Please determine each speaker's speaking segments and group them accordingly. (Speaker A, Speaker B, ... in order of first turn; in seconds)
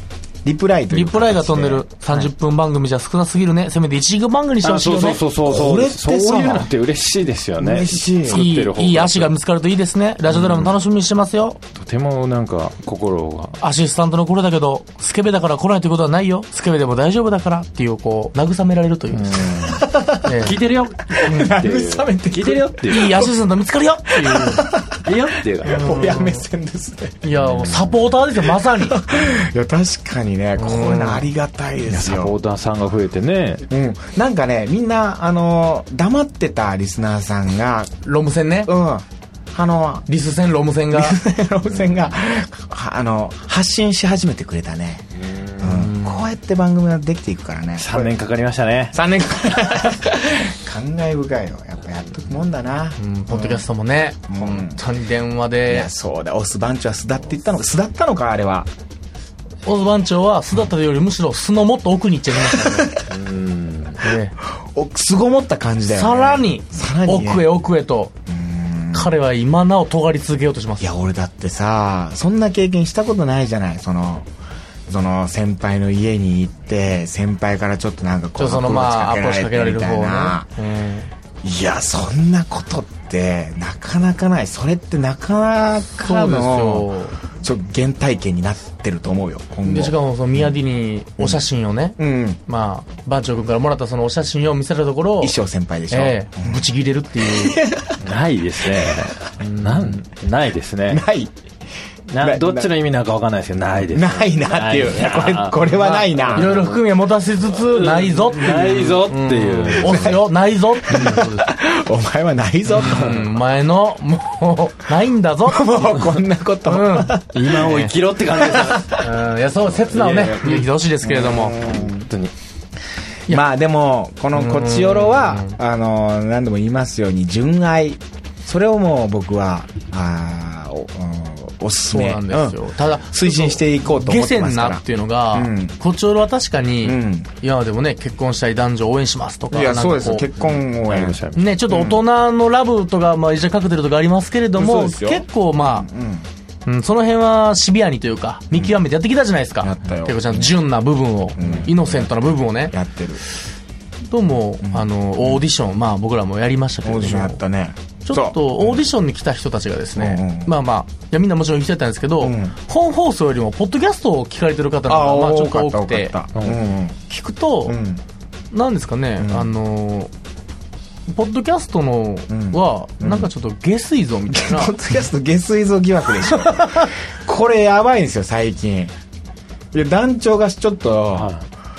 Speaker A: 0.5-2.3, 5.4-6.7, 7.6-8.4, 19.7-20.3, 21.1-23.3, 24.1-25.1, 25.6-27.2, 28.8-32.4, 33.7-37.9, 38.7-40.0, 40.9-45.1, 45.6-48.1, 48.9-53.6, 54.3-54.8, 55.7-58.7, 64.7-67.5, 68.3-69.1, 70.8-74.3, 74.9-80.5, 81.4-90.5, 91.2-91.4, 92.0-92.4, 95.2-96.6, 97.2-98.0, 98.9-100.0, 100.9-101.3, 102.2-102.7, 103.9-106.6, 109.9-110.2, 110.9-113.2, 115.5-117.6, 121.0-122.1, 123.3-135.8, 136.8-137.3, 139.5-141.2, 141.7-142.0, 144.6-146.3, 149.6-150.5, 151.4-153.2, 154.6-155.4, 156.8-158.8, 160.0-160.5, 162.2-162.6, 164.9-167.0, 167.7-168.0, 169.2-169.5, 172.3-173.3, 174.3-178.9, 179.7-181.3
Speaker B: 0.9-5.2, 8.3-11.6, 13.6-19.6, 20.2-20.6, 22.9-24.7, 25.7-26.4, 27.2-29.0, 30.6-31.3, 38.0-38.7, 40.1-41.2, 53.0-55.9, 59.6-62.9, 64.0-64.3, 65.9-68.1, 68.9-70.9, 78.4-81.1, 86.0-87.2, 89.7-95.4, 95.9-97.6, 105.8-111.5, 112.8-116.0, 116.7-121.6, 124.3-125.6, 131.9-140.3, 141.4-145.9, 146.7-152.7, 154.1-157.4, 158.1-166.1, 167.1-167.8, 168.5-170.1, 171.1-174.7, 176.2-176.9
Speaker C: 4.6-9.3, 10.3-10.8, 11.8-13.6, 19.1-23.2, 25.1-26.2, 27.4-28.0, 31.9-33.7, 41.6-42.1, 45.1-46.3, 47.8-49.0, 63.1-64.1, 98.0-101.0, 102.1-106.8, 107.5-110.2, 112.8-113.3, 117.3-120.7, 121.6-122.3, 140.4-141.6, 166.3-166.6, 181.1-181.5